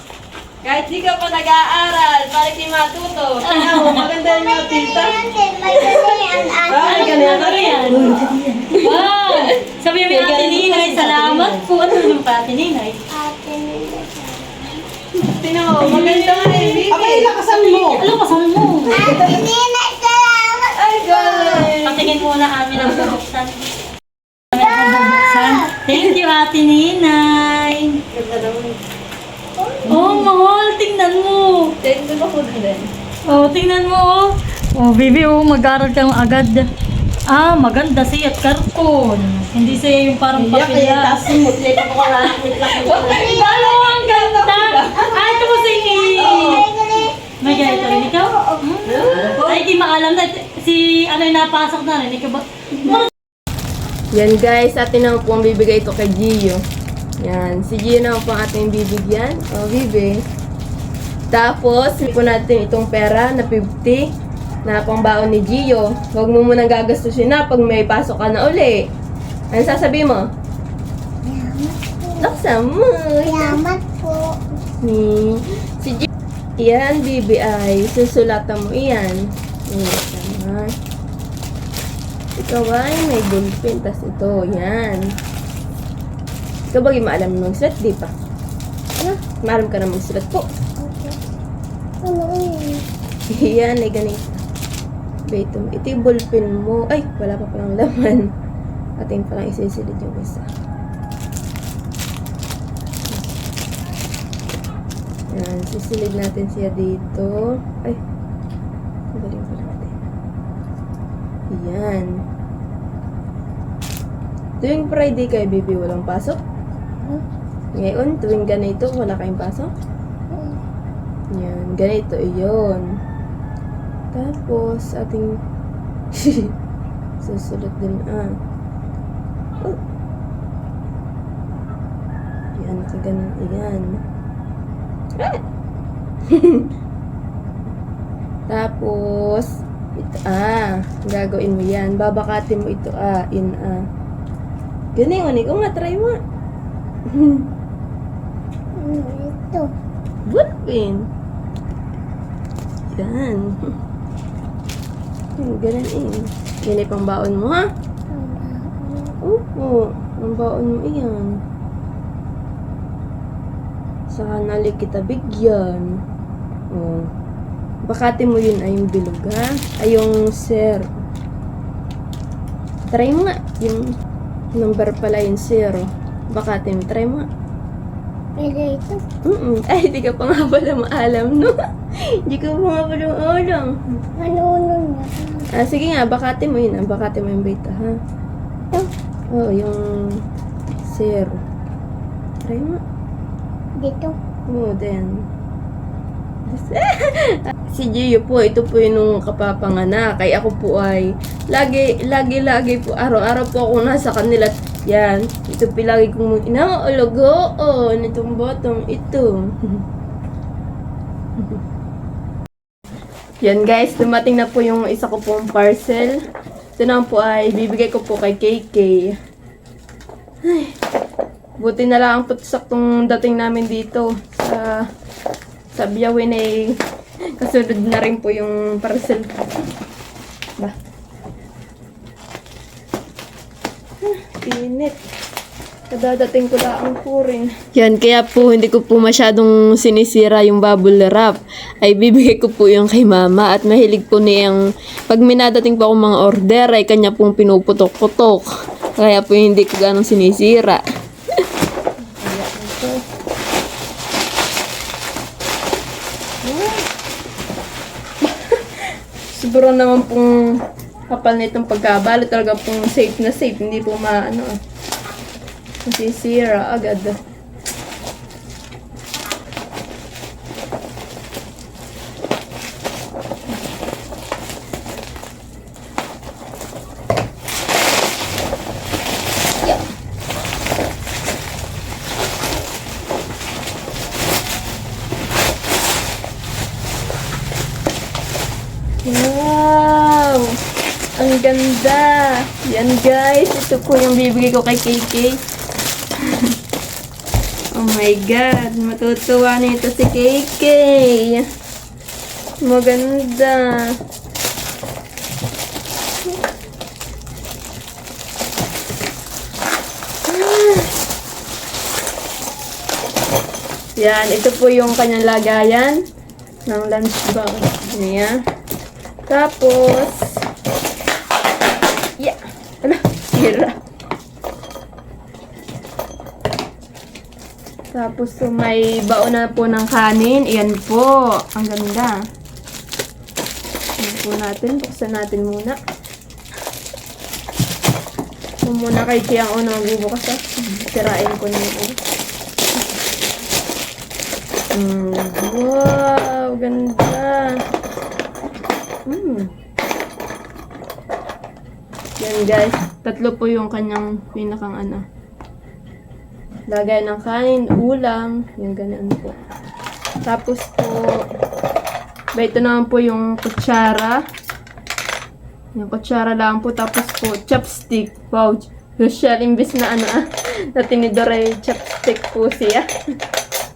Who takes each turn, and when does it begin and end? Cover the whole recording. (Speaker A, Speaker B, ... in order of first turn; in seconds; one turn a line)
Speaker A: 0.6-5.2
Speaker B: 3.5-4.1
Speaker C: 4.2-8.0
Speaker A: 5.7-9.5
Speaker B: 6.8-13.0
Speaker A: 10.1-12.1
Speaker C: 13.1-14.8
Speaker A: 15.2-17.3
Speaker B: 15.8-19.0
Speaker D: 16.9-18.1
Speaker C: 18.9-21.7
Speaker D: 19.1-19.4
Speaker A: 20.7-22.1
Speaker B: 21.8-23.7
Speaker A: 22.8-23.1
Speaker B: 24.5-28.0
Speaker C: 24.6-25.7
Speaker A: 28.1-28.8
Speaker B: 29.9-31.8
Speaker A: 31.8-32.9
Speaker B: 33.3-36.7
Speaker B: 37.3-41.5
Speaker D: 40.5-43.1
Speaker A: 41.8-43.3
Speaker B: 42.8-46.7
Speaker C: 45.8-48.6
Speaker B: 47.4-53.1
Speaker A: 49.0-49.5
Speaker A: 54.1-56.6
Speaker A: 57.2-60.2
Speaker A: 61.3-64.1
Speaker A: 64.7-68.8
Speaker A: 69.5-70.2
Speaker C: 71.2-72.4
Speaker A: 72.2-73.6
Speaker C: 73.2-74.5
Speaker A: 74.8-76.1
Speaker A: 76.6-80.7
Speaker A: 82.4-85.1
Speaker A: 86.7-88.1
Speaker A: 89.4-90.5
Speaker C: 90.8-91.2
Speaker C: 92.0-92.9
Speaker A: 93.3-94.4
Speaker A: 95.3-98.3
Speaker A: 99.0-100.5
Speaker A: 105.3-108.0
Speaker A: 109.1-110.0
Speaker A: 111.5-112.2
Speaker A: 114.6-116.4
Speaker A: 117.7-119.7
Speaker C: 120.3-120.6
Speaker A: 121.3-122.9
Speaker A: 124.1-125.4
Speaker A: 126.1-126.5
Speaker A: 127.2-128.3
Speaker A: 132.6-134.0
Speaker A: 136.3-136.7
Speaker A: 138.5-143.8
Speaker A: 144.9-146.2
Speaker A: 147.1-147.5
Speaker C: 148.8-149.7
Speaker A: 150.3-151.1
Speaker A: 152.9-153.6
Speaker A: 155.4-157.7
Speaker C: 158.1-159.2
Speaker A: 159.2-161.3
Speaker A: 164.1-166.0
Speaker A: 166.7-167.1
Speaker A: 167.9-170.9
Speaker A: 172.9-173.9
Speaker A: 174.6-177.2
Speaker C: 178.4-179.0
Speaker A: 179.3-181.5
Speaker A: 182.1-183.7
Speaker C: 184.2-185.5
Speaker A: 185.6-188.0
Speaker A: 189.3-190.2
Speaker A: 190.8-191.4
Speaker A: 192.4-192.8
Speaker C: 193.8-194.2
Speaker A: 194.5-195.2
Speaker A: 196.5-209.8
Speaker A: 213.4-216.2
Speaker A: 216.8-219.2
Speaker A: 220.4-220.7
Speaker A: 221.6-224.8
Speaker A: 225.7-226.8
Speaker A: 227.4-229.5
Speaker A: 234.0-235.0
Speaker A: 235.9-250.8
Speaker A: 252.0-253.0
Speaker A: 256.4-256.7
Speaker A: 258.2-258.8
Speaker A: 259.3-260.6
Speaker A: 261.1-264.6
Speaker A: 265.9-267.2
Speaker A: 289.1-290.5
Speaker A: 291.2-295.4
Speaker A: 297.8-301.4
Speaker A: 302.6-303.8
Speaker A: 310.3-310.9
Speaker A: 314.0-316.0
Speaker A: 316.7-318.4
Speaker A: 319.3-320.4
Speaker A: 322.2-323.8
Speaker A: 327.9-332.2
Speaker A: 334.0-335.8
Speaker A: 338.6-342.0
Speaker A: 344.7-347.5
Speaker A: 349.1-349.5
Speaker A: 352.2-355.0
Speaker A: 356.7-359.4
Speaker A: 360.3-361.1
Speaker A: 362.4-364.2
Speaker A: 365.8-372.9